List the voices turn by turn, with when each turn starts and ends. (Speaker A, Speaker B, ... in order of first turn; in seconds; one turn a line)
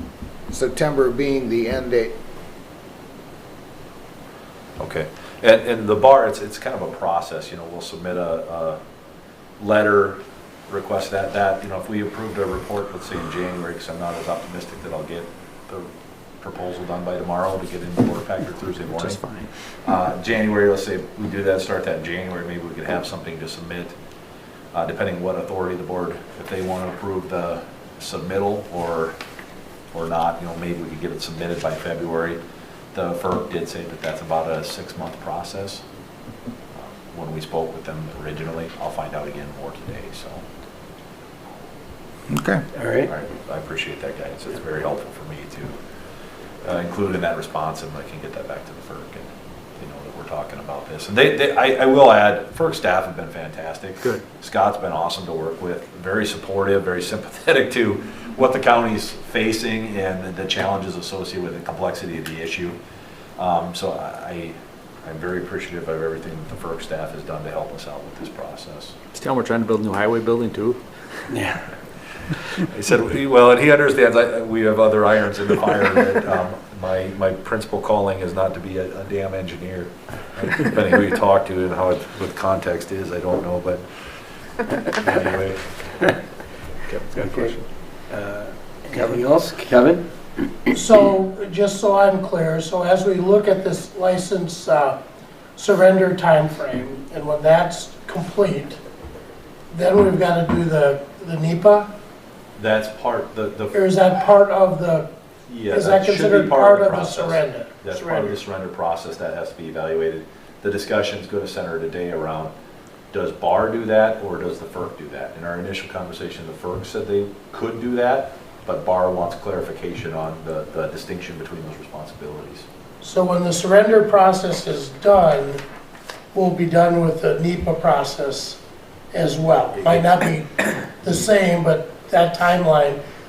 Speaker A: 0.5-2.1
Speaker B: 4.8-8.8
Speaker B: 9.6-15.9
Speaker B: 16.4-23.9
Speaker C: 18.9-19.5
Speaker B: 24.7-29.1
Speaker B: 29.9-32.4
Speaker B: 32.9-35.8
Speaker B: 36.7-40.4
Speaker A: 42.3-42.6
Speaker D: 42.8-43.1
Speaker B: 43.0-45.8
Speaker B: 46.6-62.8
Speaker B: 63.4-68.9
Speaker C: 69.1-70.8
Speaker D: 71.3-71.6
Speaker B: 72.5-83.8
Speaker B: 84.8-85.8
Speaker C: 86.8-87.7
Speaker D: 87.2-87.5
Speaker D: 88.1-90.0
Speaker E: 90.7-95.0
Speaker E: 95.5-98.8
Speaker E: 99.7-101.9
Speaker B: 102.6-103.8
Speaker E: 103.7-105.1
Speaker B: 105.5-112.5
Speaker E: 105.7-108.4
Speaker B: 113.1-122.7
Speaker E: 123.0-125.6
Speaker E: 126.3-128.6
Speaker E: 129.1-133.0